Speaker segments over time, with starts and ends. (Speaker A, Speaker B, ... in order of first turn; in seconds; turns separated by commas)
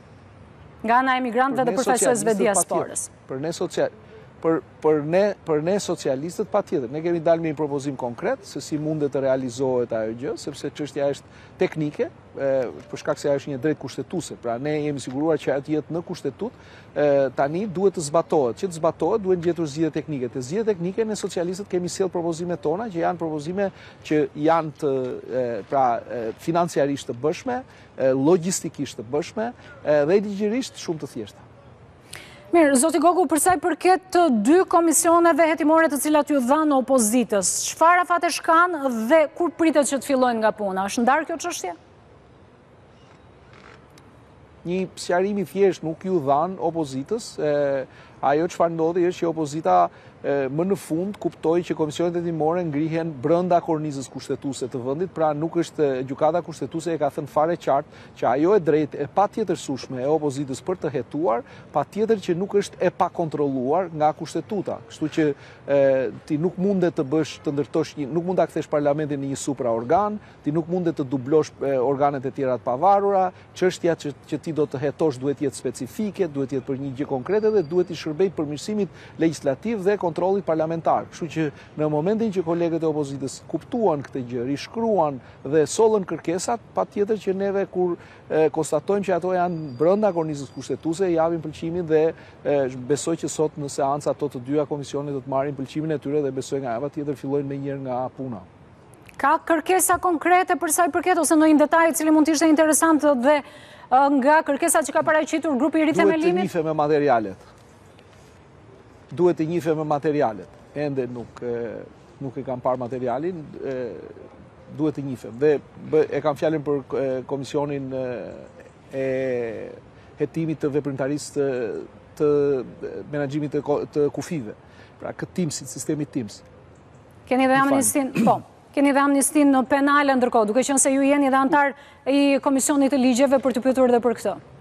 Speaker A: 0.8-3.1, Speaker B: 1.5-31.4, Speaker A: 32.5-41.8, Speaker B: 44.6-98.5, Speaker A: 99.2-106.5, Speaker B: 105.9-107.4, Speaker B: 109.1-114.1, Speaker B: 114.7-126.4, Speaker A: 127.3-134.4, Speaker B: 127.5-128.0